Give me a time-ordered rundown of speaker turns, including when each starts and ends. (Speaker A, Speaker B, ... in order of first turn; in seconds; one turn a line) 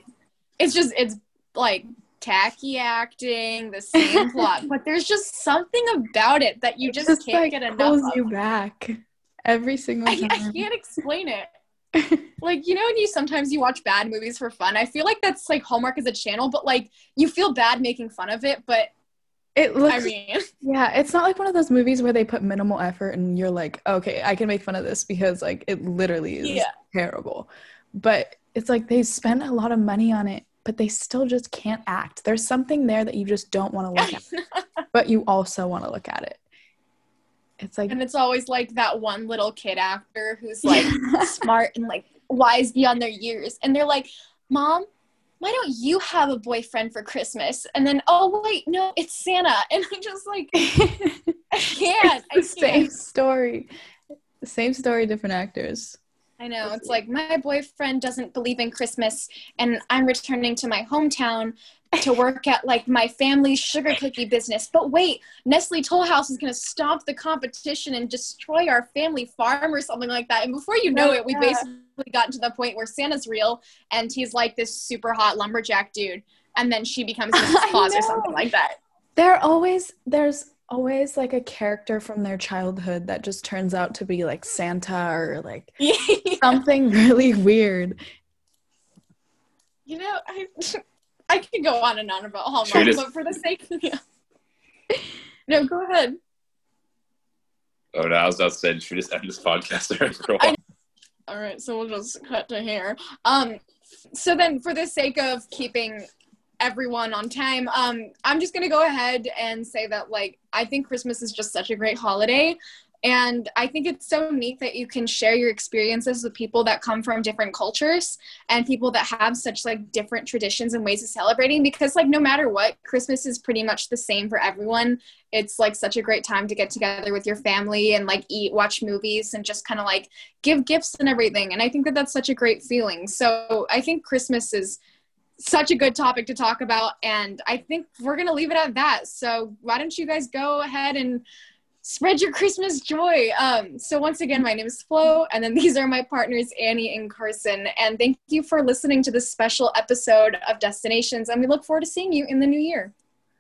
Speaker A: 0.6-8.2
Speaker B: 4.0-4.5
Speaker B: 6.9-10.7
Speaker A: 10.1-11.5
Speaker B: 11.9-12.2
Speaker A: 12.4-18.9
Speaker B: 19.6-20.1
Speaker A: 19.9-20.4
Speaker B: 20.6-34.2
Speaker A: 26.4-26.7
Speaker A: 34.0-34.6
Speaker B: 34.9-36.4
Speaker B: 37.6-38.0
Speaker A: 37.9-44.9
Speaker B: 40.7-41.3
Speaker A: 45.4-50.6
Speaker B: 50.6-51.4
Speaker A: 51.5-53.0
Speaker B: 52.0-53.7
Speaker B: 54.4-56.0
Speaker A: 56.4-78.8
Speaker B: 56.6-57.0
Speaker B: 70.9-71.7
Speaker B: 77.3-78.4
Speaker B: 79.2-85.8
Speaker A: 85.8-86.6
Speaker B: 86.4-88.0
Speaker A: 89.9-94.0
Speaker C: 92.7-93.0
Speaker A: 95.5-96.2
Speaker C: 97.9-100.5
Speaker A: 101.3-103.6
Speaker A: 104.1-106.1
Speaker A: 106.6-134.8
Speaker A: 135.4-141.2
Speaker A: 141.8-152.9